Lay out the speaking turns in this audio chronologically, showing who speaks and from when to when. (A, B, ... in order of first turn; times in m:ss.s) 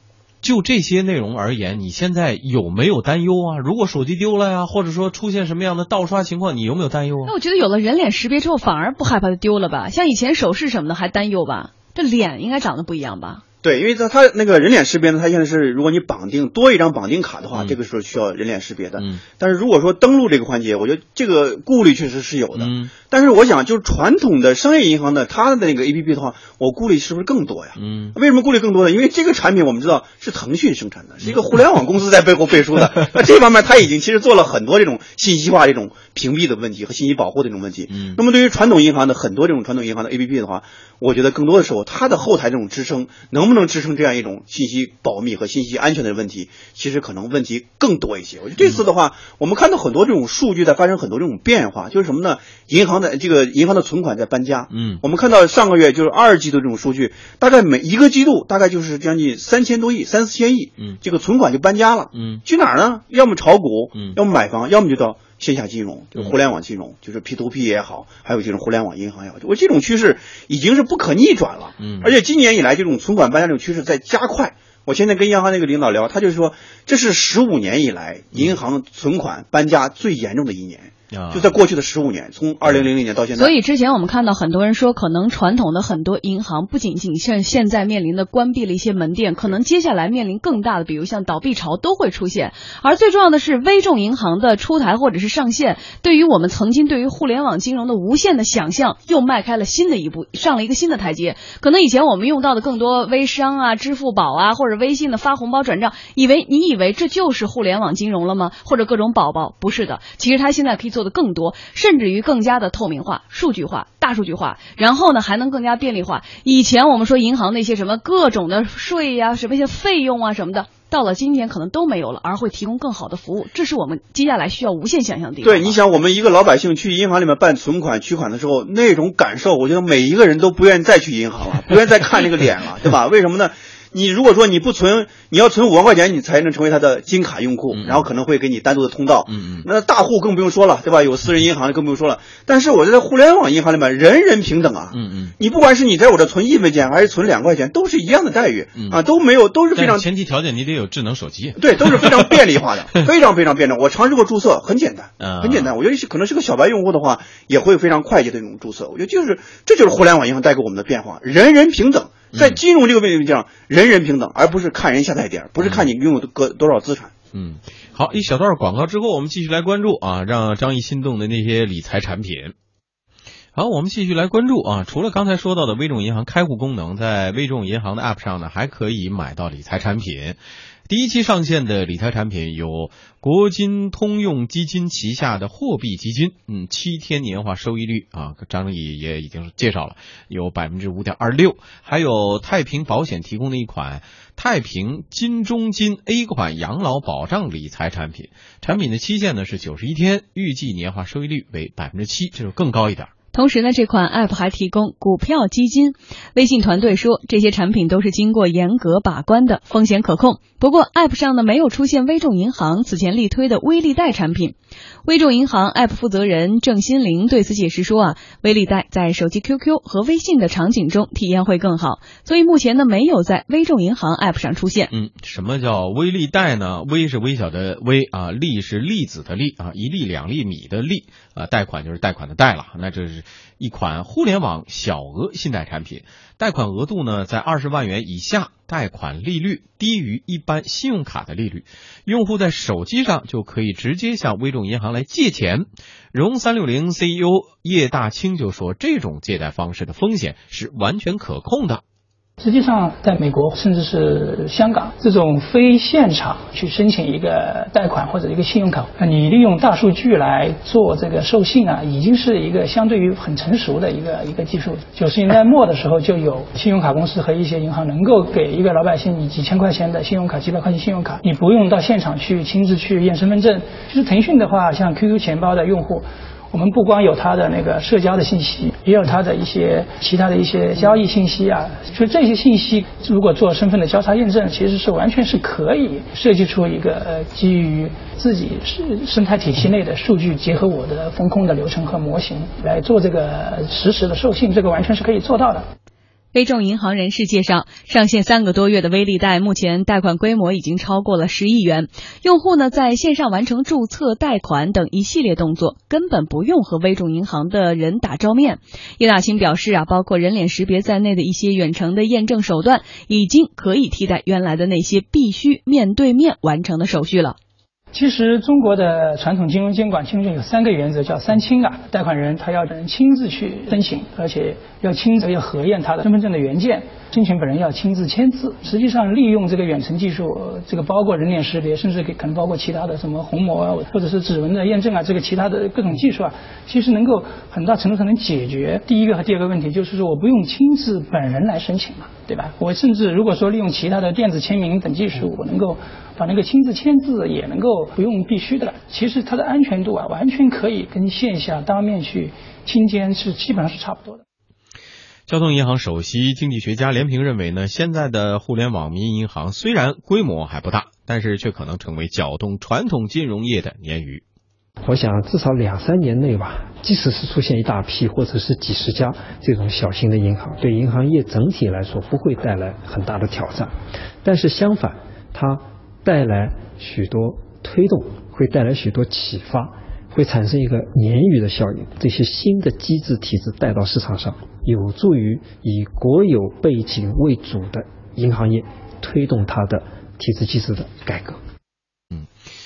0:00.4-0:07.3 A
0:07.3-0:13.4 B
0:13.6-1:23.5 C
0:22.6-0:22.9 A
0:27.8-0:28.2 A
0:37.9-0:38.2 A
0:54.7-0:55.0 A
1:02.1-1:02.4 A
1:11.8-1:12.2 A
1:21.1-1:21.6 A
1:23.4-2:05.8 B
2:05.4-2:30.1 C
2:17.7-2:18.1 A
2:19.3-2:19.7 A
2:24.9-2:25.3 A
2:29.7-2:32.4 A
2:31.6-2:47.1 C
2:35.2-2:35.7 A
2:42.3-2:42.6 A
2:45.6-2:45.9 A
2:47.3-2:52.5 A
2:53.6-3:23.1 A
3:23.3-3:44.9 B
3:44.9-4:11.8 A
4:12.4-4:55.6 D
4:56.3-5:17.4 B
5:17.9-5:54.2 D
5:55.3-6:04.2 A
6:04.8-6:13.7 E
6:14.2-6:31.4 E